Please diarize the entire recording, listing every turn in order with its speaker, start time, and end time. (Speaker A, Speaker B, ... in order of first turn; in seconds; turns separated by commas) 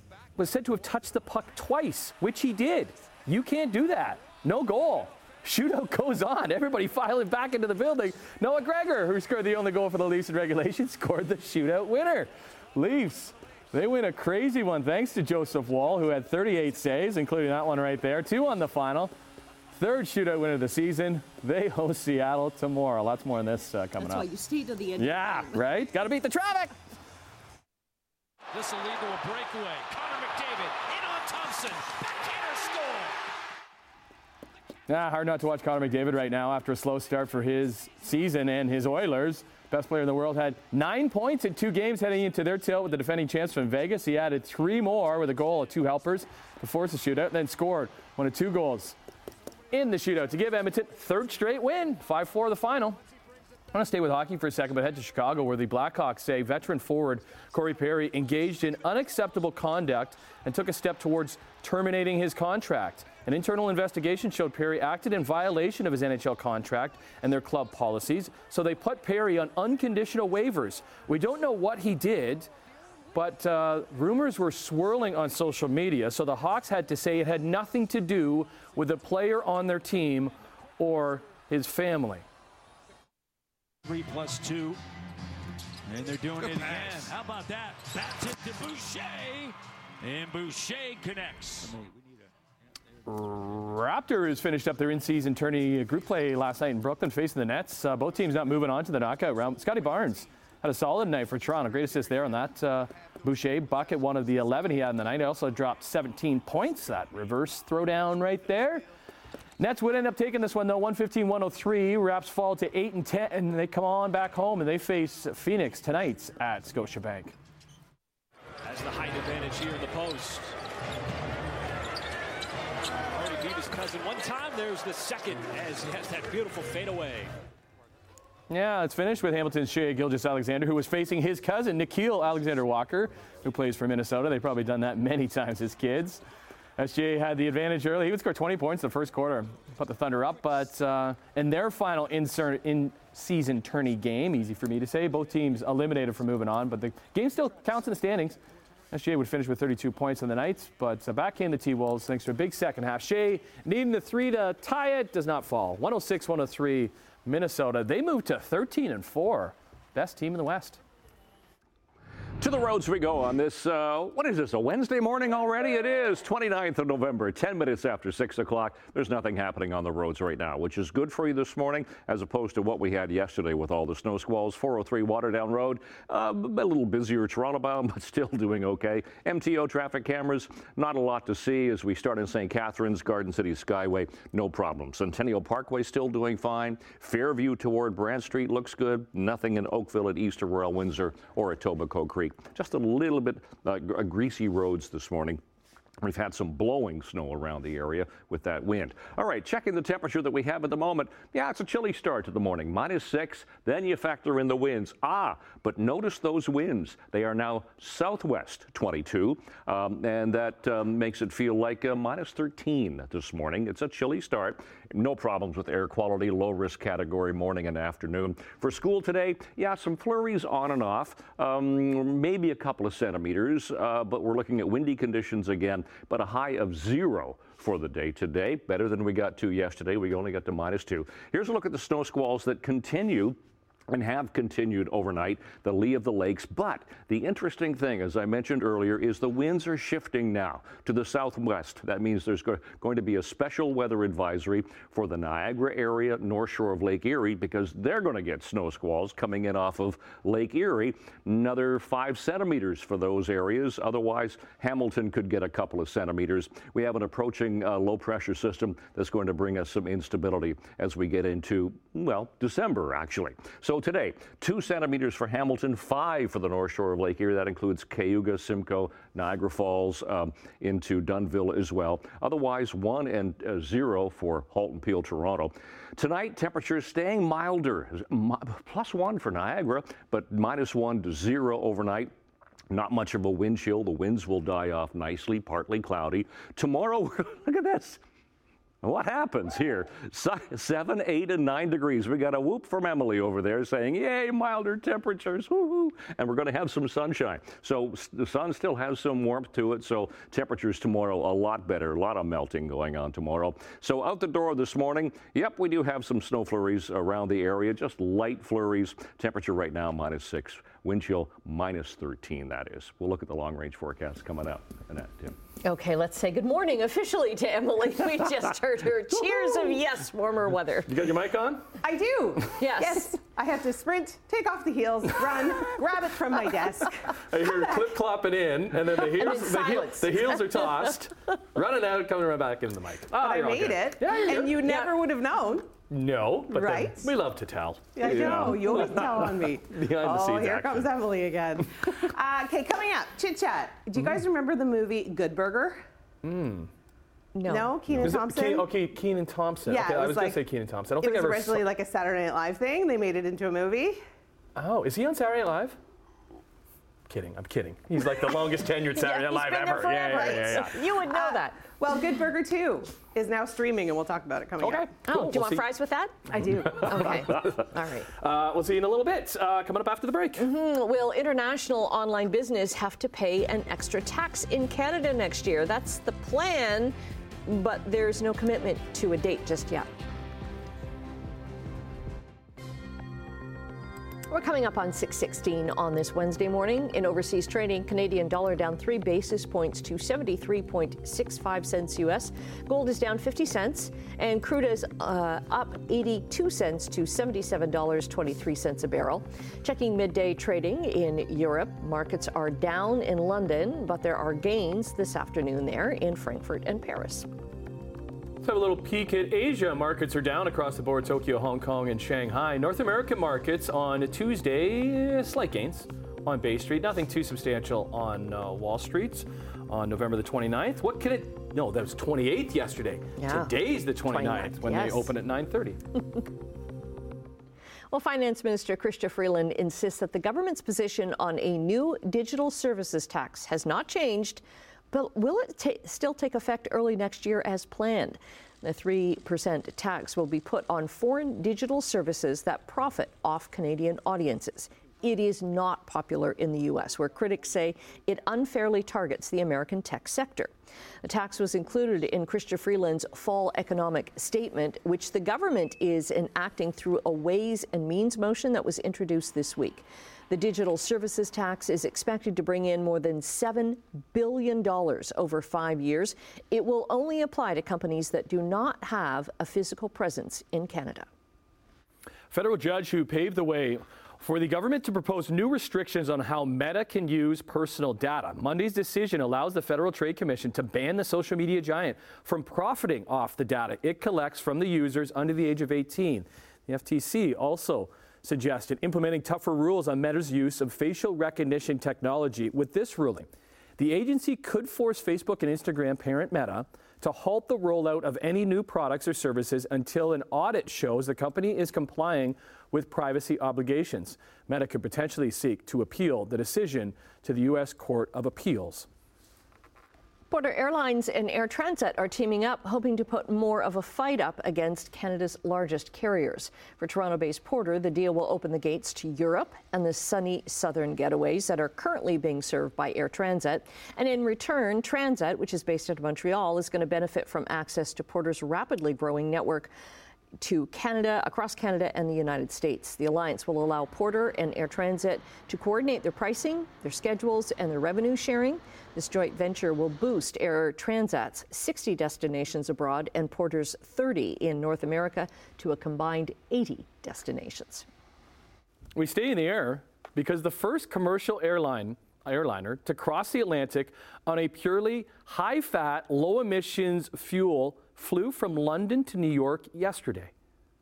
Speaker A: 0.3-19.1, Speaker A: 19.7-24.3, Speaker B: 24.2-25.0, Speaker A: 24.9-26.7, Speaker C: 28.5-33.2, Speaker A: 34.9-49.0, Speaker A: 49.7-53.0, Speaker A: 53.7-72.5, Speaker A: 73.1-82.2, Speaker C: 83.8-84.8, Speaker C: 85.9-91.9, Speaker A: 93.1-108.8, Speaker A: 109.6-117.3, Speaker C: 118.6-120.5, Speaker C: 123.1-127.3, Speaker A: 128.5-136.2, Speaker A: 136.8-148.4, Speaker A: 148.9-160.8, Speaker D: 162.4-195.4, Speaker D: 196.0-233.4, Speaker D: 233.9-282.1, Speaker D: 282.7-288.0, Speaker D: 288.8-315.4, Speaker B: 315.6-320.9, Speaker A: 319.3-319.8, Speaker A: 320.9-321.7, Speaker E: 321.8-327.9, Speaker B: 322.6-323.2, Speaker A: 327.2-334.8, Speaker B: 329.2-330.4, Speaker E: 333.1-335.7, Speaker B: 334.5-334.9, Speaker A: 335.9-340.9, Speaker E: 336.5-337.1, Speaker E: 337.9-345.9, Speaker A: 343.9-344.2, Speaker A: 346.2-346.7, Speaker B: 347.3-348.1, Speaker E: 347.4-348.8, Speaker A: 348.0-351.6, Speaker E: 349.6-354.0, Speaker A: 354.6-355.8, Speaker A: 357.1-360.8, Speaker B: 358.9-361.6, Speaker E: 360.1-364.9, Speaker A: 364.6-365.6, Speaker B: 365.1-368.1, Speaker E: 366.3-367.1, Speaker A: 366.4-367.5, Speaker A: 368.2-370.5, Speaker B: 370.4-376.9, Speaker B: 377.4-379.9, Speaker B: 384.3-407.3, Speaker A: 408.4-425.8, Speaker B: 423.2-425.1, Speaker B: 427.9-450.5, Speaker B: 451.0-471.1, Speaker A: 472.3-508.9, Speaker B: 510.3-529.7, Speaker B: 530.4-547.9, Speaker A: 548.9-560.3